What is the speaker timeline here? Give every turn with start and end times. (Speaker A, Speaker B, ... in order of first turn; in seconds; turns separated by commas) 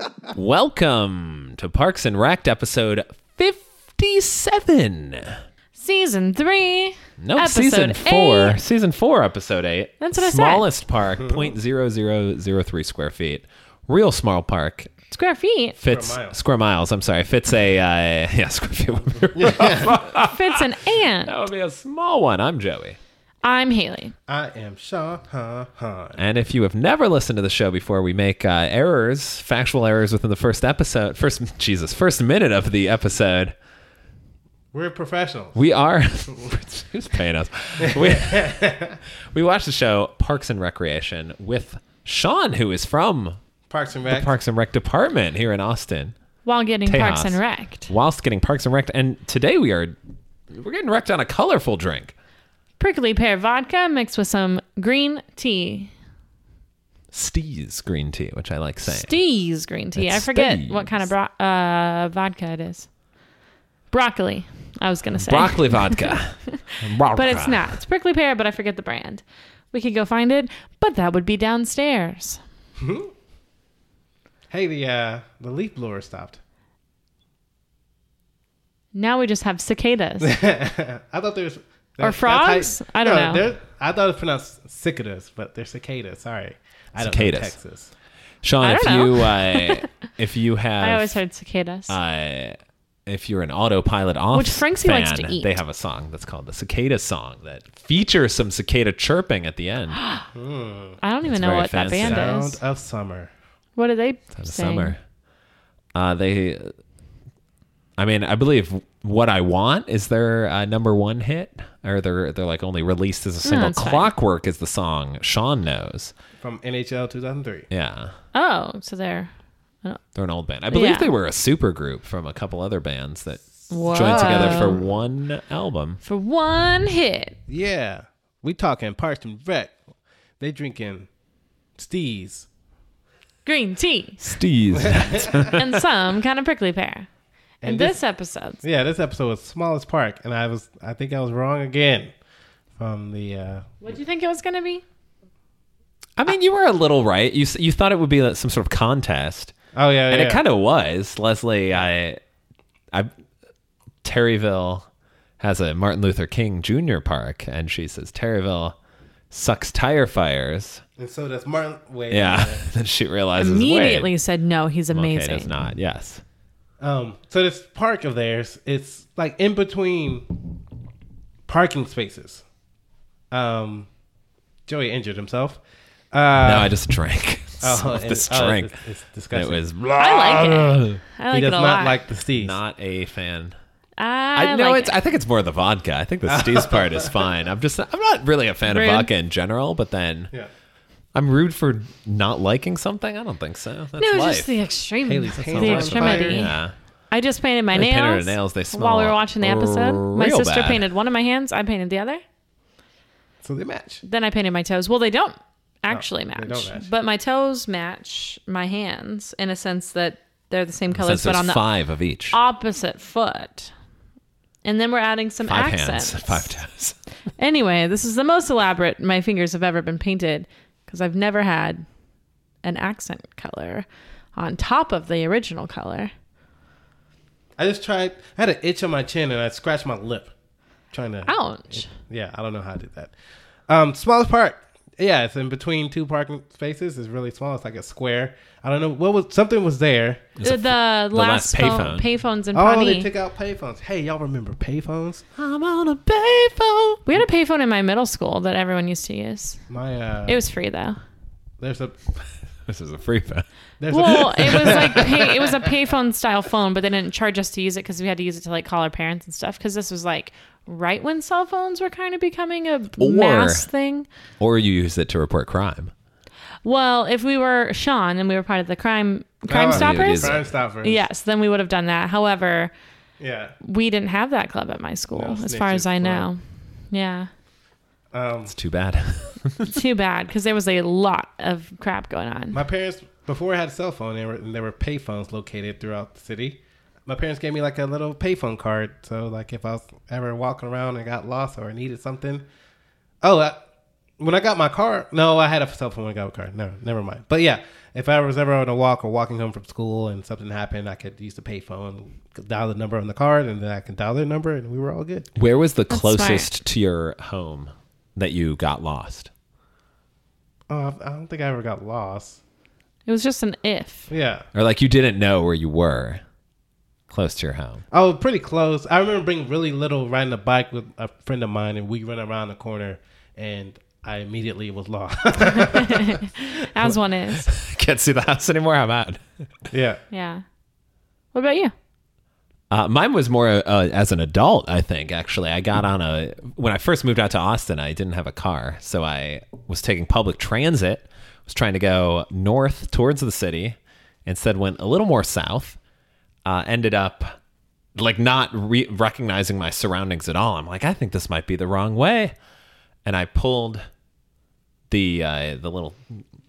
Speaker A: 0.3-5.4, Speaker B: 5.8-8.6, Speaker A: 7.2-14.9, Speaker B: 10.0-10.7, Speaker B: 15.1-15.8, Speaker A: 15.8-23.0, Speaker C: 15.9-16.4, Speaker C: 19.4-19.9, Speaker B: 19.9-21.4, Speaker B: 23.4-24.1, Speaker C: 24.3-26.2, Speaker A: 26.2-33.5, Speaker C: 34.7-35.6, Speaker A: 35.5-38.7, Speaker C: 37.8-39.0, Speaker A: 39.3-43.4, Speaker C: 43.7-44.3, Speaker A: 44.1-46.1, Speaker B: 46.5-47.9, Speaker A: 46.9-50.0, Speaker A: 50.5-52.1, Speaker B: 52.8-55.9, Speaker A: 57.1-59.1, Speaker B: 58.9-62.9, Speaker A: 60.0-61.1, Speaker B: 63.9-72.4, Speaker A: 65.2-67.8, Speaker C: 72.8-73.1, Speaker C: 74.5-76.4, Speaker B: 78.9-80.3, Speaker C: 80.2-87.9, Speaker B: 82.0-83.4, Speaker A: 87.0-87.6, Speaker A: 88.4-91.2, Speaker B: 88.6-89.9, Speaker B: 90.8-92.0, Speaker A: 91.9-100.0, Speaker B: 94.3-95.6, Speaker B: 100.0-100.3, Speaker C: 100.3-101.0, Speaker B: 101.0-102.6, Speaker A: 101.2-102.4, Speaker C: 102.0-103.3, Speaker B: 103.8-105.0, Speaker A: 104.4-105.0, Speaker A: 106.0-106.7, Speaker A: 108.0-116.1, Speaker B: 113.4-114.1, Speaker C: 116.4-117.7, Speaker A: 117.7-118.2, Speaker B: 118.3-119.3, Speaker A: 120.2-126.0, Speaker B: 120.7-121.1, Speaker B: 123.7-124.8, Speaker C: 123.9-124.8, Speaker B: 126.0-127.4, Speaker C: 127.5-129.8, Speaker C: 130.4-131.1, Speaker C: 131.8-132.5, Speaker B: 133.4-134.4, Speaker A: 134.3-135.9, Speaker C: 134.8-135.5, Speaker B: 135.5-137.1, Speaker C: 137.6-138.0, Speaker B: 137.6-138.6, Speaker C: 138.6-142.1, Speaker C: 142.8-143.7, Speaker B: 143.8-144.8, Speaker A: 146.2-149.5, Speaker C: 149.8-150.4, Speaker A: 150.1-152.2, Speaker A: 154.0-154.9, Speaker A: 155.4-158.8, Speaker A: 159.3-160.8, Speaker C: 161.0-162.7, Speaker A: 162.1-164.1, Speaker B: 163.4-165.5, Speaker A: 164.9-166.2, Speaker C: 166.8-170.5, Speaker C: 171.5-172.4, Speaker C: 173.3-173.9, Speaker C: 174.7-175.6, Speaker C: 176.1-176.7, Speaker A: 176.4-178.7, Speaker C: 177.6-179.6, Speaker A: 179.3-181.0, Speaker B: 180.0-182.1, Speaker C: 181.3-182.6, Speaker A: 182.4-183.5, Speaker B: 184.0-185.0, Speaker A: 184.3-190.3, Speaker C: 186.3-187.2, Speaker B: 188.7-189.1, Speaker A: 191.1-194.6, Speaker B: 194.0-196.6, Speaker C: 195.1-196.4, Speaker A: 195.5-196.7, Speaker B: 197.1-202.2, Speaker A: 197.7-200.8, Speaker C: 203.4-204.0, Speaker B: 204.0-211.6, Speaker C: 205.9-206.9, Speaker A: 210.9-212.4, Speaker B: 212.3-213.7, Speaker B: 214.6-216.6, Speaker A: 215.4-217.0, Speaker B: 217.4-221.8, Speaker B: 222.6-226.1, Speaker C: 227.6-230.3, Speaker C: 230.9-233.1, Speaker B: 231.3-231.9, Speaker C: 233.7-240.3, Speaker A: 240.4-242.1, Speaker B: 240.4-243.1, Speaker C: 242.5-245.2, Speaker A: 245.4-247.0, Speaker B: 247.1-249.6, Speaker C: 249.7-250.4, Speaker B: 250.3-251.0, Speaker C: 251.6-252.0, Speaker A: 252.7-255.3, Speaker C: 253.8-255.5, Speaker B: 253.9-264.1, Speaker A: 263.0-263.7, Speaker A: 264.4-265.9, Speaker B: 266.6-272.7, Speaker C: 269.5-271.0, Speaker A: 269.6-270.4, Speaker C: 273.2-273.6, Speaker B: 273.6-276.4, Speaker C: 275.1-276.3, Speaker B: 276.9-277.3, Speaker C: 278.1-278.5, Speaker A: 278.5-279.7, Speaker B: 279.7-282.6, Speaker C: 282.5-292.4, Speaker C: 293.2-293.6, Speaker C: 294.2-305.3, Speaker A: 305.4-309.3, Speaker B: 305.9-306.5, Speaker C: 310.7-312.4, Speaker B: 313.1-314.1, Speaker C: 314.1-314.5, Speaker A: 314.5-316.2, Speaker A: 317.1-317.8, Speaker C: 317.9-326.2, Speaker B: 325.4-327.5, Speaker A: 326.8-329.3, Speaker C: 329.7-330.0, Speaker B: 330.1-330.4, Speaker B: 331.3-331.7, Speaker A: 332.7-345.8, Speaker A: 346.4-347.3, Speaker A: 348.0-352.3, Speaker A: 353.1-353.8, Speaker A: 354.9-356.2